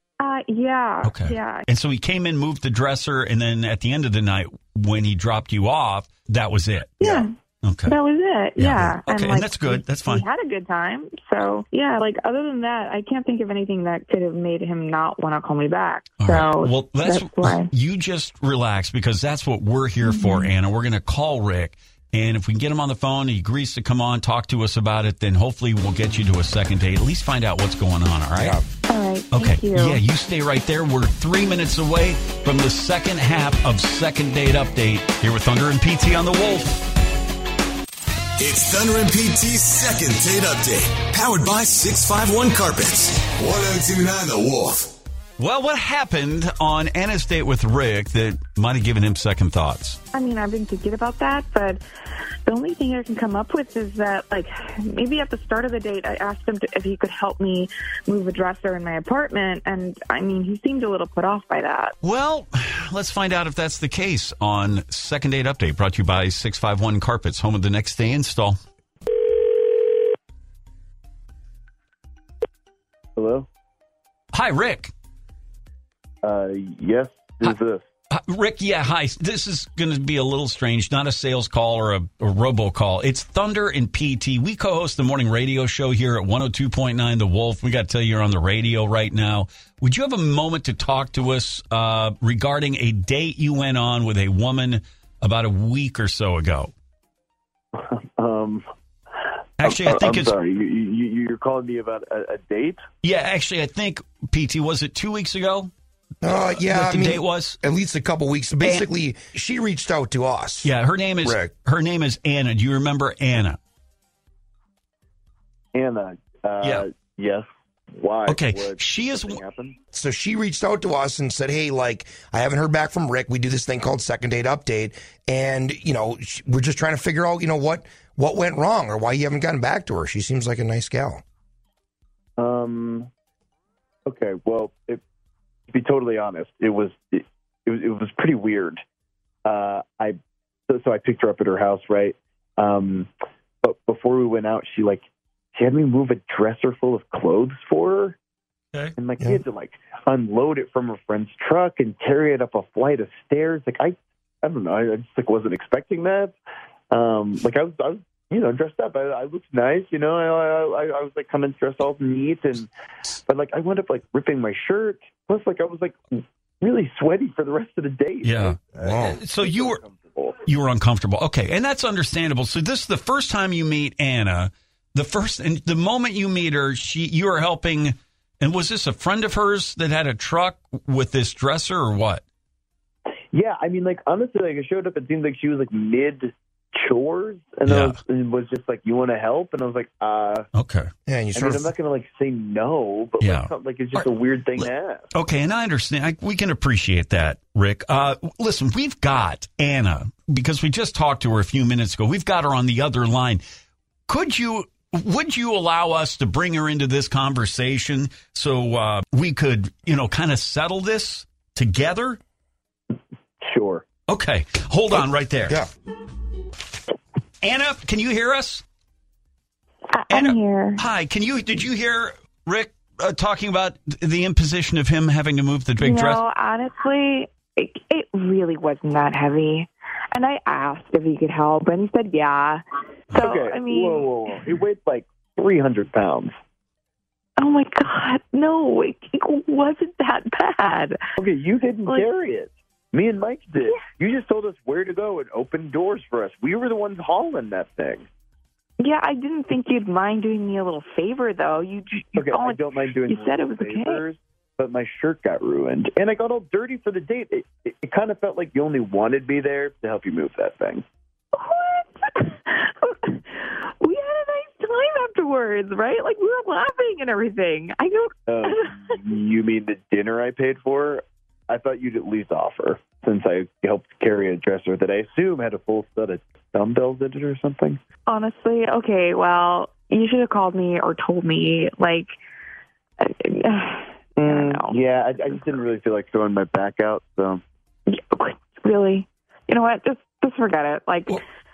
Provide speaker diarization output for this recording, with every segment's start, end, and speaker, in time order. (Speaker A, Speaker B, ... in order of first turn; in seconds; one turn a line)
Speaker A: 0.2-1.6
Speaker B: 1.0-8.0
Speaker A: 7.0-7.3
Speaker A: 7.9-17.6
Speaker B: 8.6-10.2
Speaker B: 16.2-28.6
Speaker A: 20.1-20.5
Speaker C: 28.3-28.6
Speaker A: 28.9-30.0
Speaker B: 29.3-36.8
Speaker D: 38.4-44.9
Speaker B: 45.4-50.0
Speaker A: 50.1-51.8
Speaker A: 52.5-61.9
Speaker B: 62.0-68.6
Speaker E: 73.2-73.5
Speaker B: 74.3-74.9
Speaker E: 76.2-77.8
Speaker B: 78.1-96.7
Speaker E: 97.7-98.6
Speaker B: 99.6-100.3
Speaker E: 99.6-102.8
Speaker B: 103.0-105.7
Speaker C: 106.2-111.5
Speaker B: 106.2-107.6
Speaker B: 108.6-108.9
Speaker B: 110.6-113.6
Speaker E: 115.7-119.8
Speaker B: 118.2-119.4
Speaker C: 119.9-131.2
Speaker E: 132.4-133.1
Speaker E: 134.1-135.0
Speaker E: 135.7-138.8
Speaker E: 139.4-140.2
Speaker E: 140.7-143.1
Speaker E: 143.6-145.0
Speaker E: 145.5-148.2
Speaker E: 149.0-156.3
Speaker E: 156.9-162.7
Speaker E: 163.3-170.4
Speaker B: 168.2-168.6
Speaker C: 168.8-169.2
Speaker B: 169.2-169.8
Speaker B: 170.4-182.2
Speaker E: 183.3-190.5
Speaker B: 187.7-188.0
Speaker B: 190.5-190.9
Speaker C: 191.1-191.7
Speaker E: 191.3-195.1
Speaker B: 193.2-194.1
Speaker B: 194.6-203.4
Speaker B: 204.1-212.2
Speaker E: 213.4-213.8
Speaker B: 214.1-215.6
Speaker B: 217.4-218.6
Speaker A: 219.9-220.8
Speaker B: 220.1-226.2
Speaker A: 225.8-232.6
Speaker A: 233.1-234.1
Speaker E: 233.1-236.3
Speaker A: 237.4-241.0
Speaker E: 241.2-248.1
Speaker A: 248.8-254.0
Speaker E: 252.1-260.8
Speaker A: 261.3-268.8
Speaker E: 268.3-277.8
Speaker A: 278.1-282.1
Speaker A: 283.0-285.4
Speaker E: 284.2-287.4
Speaker A: 287.9-291.2